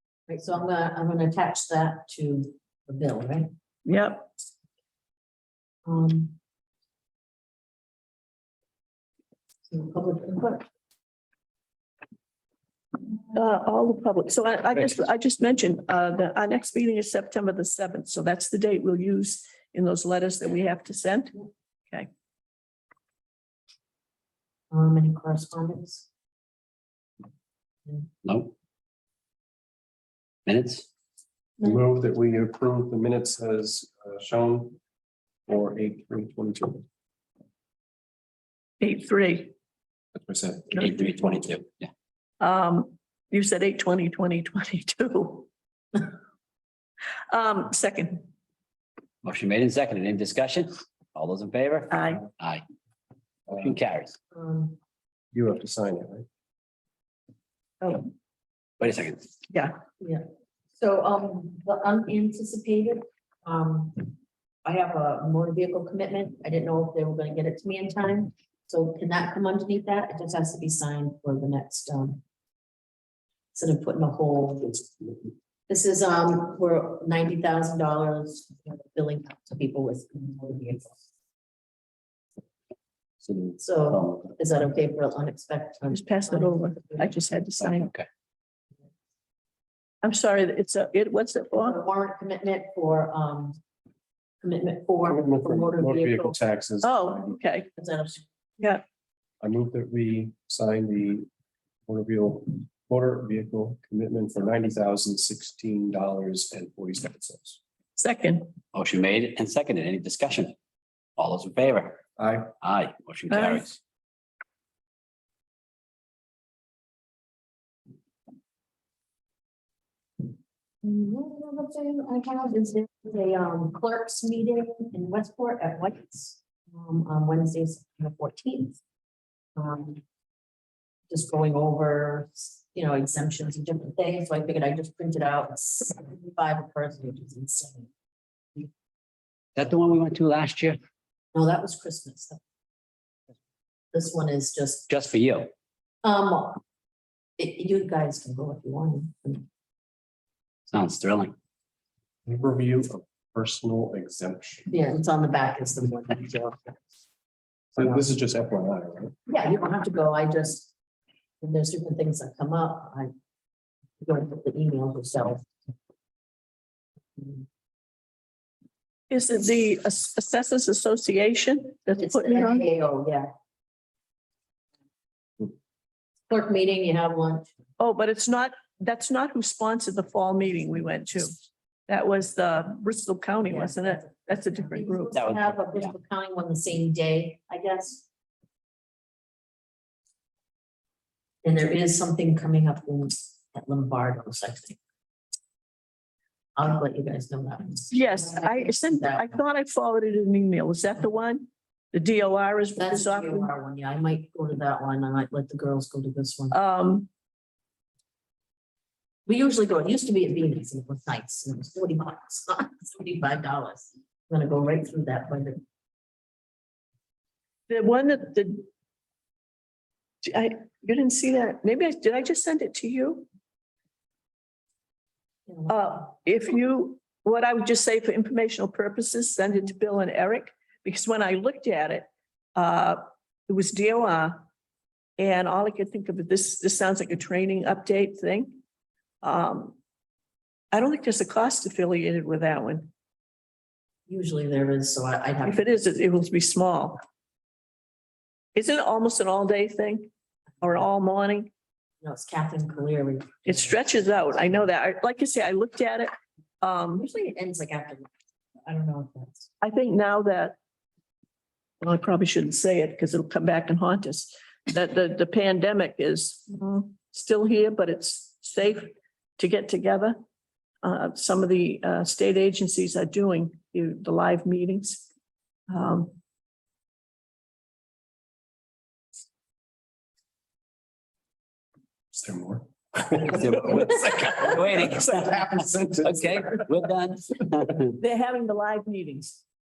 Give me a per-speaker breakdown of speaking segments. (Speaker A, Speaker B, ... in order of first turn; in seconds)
Speaker A: 0.3-3.5, 5.9-6.4, 9.7-10.7, 24.7-26.1, 54.3-54.8, 60.0-60.2, 60.8-72.2, 73.5-74.9, 75.7-81.0, 83.6-87.3, 91.5-93.6, 94.4-96.4, 97.7-98.3, 120.8-128.8, 129.6-130.0, 131.1-137.9, 141.3-142.4, 143.9-144.9, 146.0-146.6, 147.4-149.5, 154.7-156.8, 157.8-158.1, 159.3-160.7, 161.4-163.1, 164.0-165.5, 172.0-173.3, 176.3-177.5, 183.4-188.1, 191.4-194.8, 196.6-199.3, 202.8-206.6, 209.3-215.6, 225.5-226.1, 244.1-245.8, 252.0-254.7, 256.9-258.1, 258.6-259.5
Speaker B: 3.9-4.3, 13.3-21.4, 38.8-39.5, 42.4-45.5, 47.3-48.3, 51.9-52.2, 57.8-58.1, 59.5-59.8, 85.9-87.9, 90.0-91.8, 96.8-97.7, 108.0-108.5, 113.3-113.7, 169.1-172.7, 177.8-181.4, 181.9-185.2, 197.9-203.5, 206.5-207.1, 217.7-218.7, 220.2-223.3, 225.7-234.4, 235.2-238.6, 239.2-239.8, 240.7-242.9, 245.4-247.0, 248.6-250.1, 250.6-251.5, 253.4-257.1, 259.6-260.6, 261.8-270.2, 270.8-275.1, 275.7-276.2, 288.0-289.4
Speaker C: 28.2-28.5, 30.5-30.9, 40.8-41.9, 49.2-52.6, 53.5-54.2, 58.8-59.3, 83.3-84.2, 87.6-88.1, 108.7-110.5, 111.2-112.0, 112.6-113.8, 139.6-140.8, 144.9-145.5, 150.7-151.3, 185.1-185.9, 283.2-288.0
Speaker D: 31.6-34.8, 35.5-36.9, 40.1-41.3, 55.3-56.3, 95.1-97.4, 99.4-101.3, 101.9-107.6, 112.2-112.5, 152.3-154.7, 157.8-159.1, 282.1-286.5